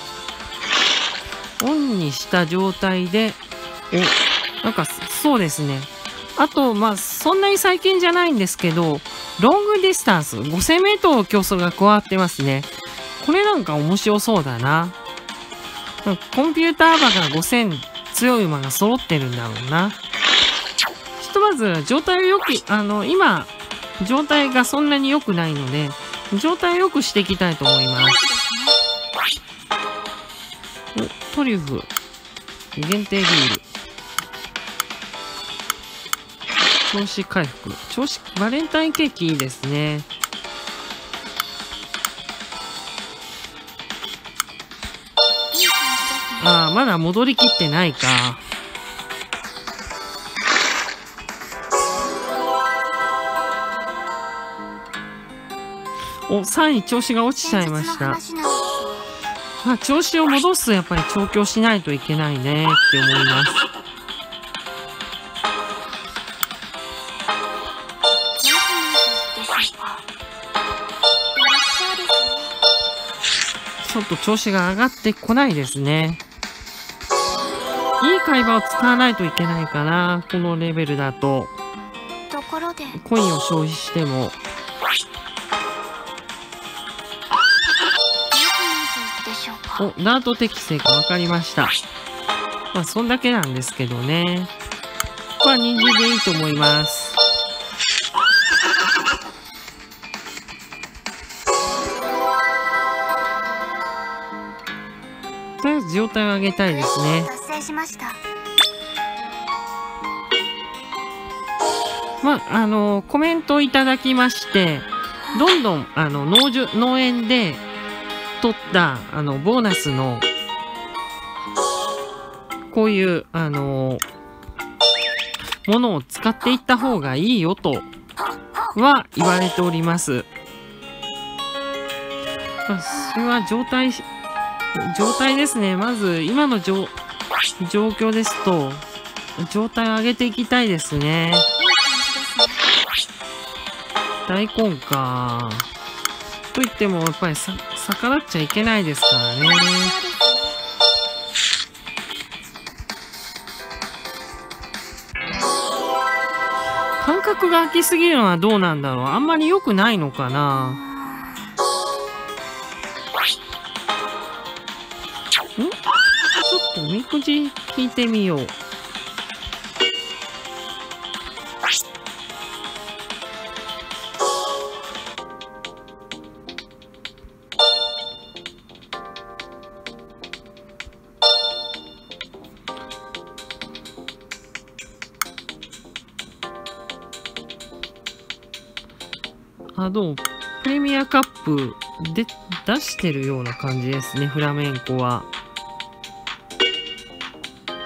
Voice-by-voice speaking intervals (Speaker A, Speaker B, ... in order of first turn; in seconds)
Speaker A: 1.6-14.9, 16.0-20.0, 21.2-28.2, 30.9-31.9, 32.8-33.6, 36.9-40.1, 46.4-48.4, 56.3-58.2, 59.6-63.6, 73.8-76.2, 78.0-81.5, 82.9-84.3, 89.8-91.8, 92.7-94.5, 95.4-97.2, 105.6-107.3, 112.2-117.6, 118.4-120.2, 122.7-124.0, 125.6-127.9, 128.7-130.3, 132.7-134.1, 134.7-136.9, 137.6-138.8, 139.4-141.5, 144.3-145.7, 146.5-149.9, 157.0-160.8, 166.3-168.5, 189.8-195.3
Speaker B: 27.9-28.8, 45.5-46.5, 57.4-59.1, 68.4-70.0, 71.3-72.5, 82.3-83.0, 88.3-89.9, 95.7-96.7, 106.7-108.2, 141.6-142.7, 149.4-150.6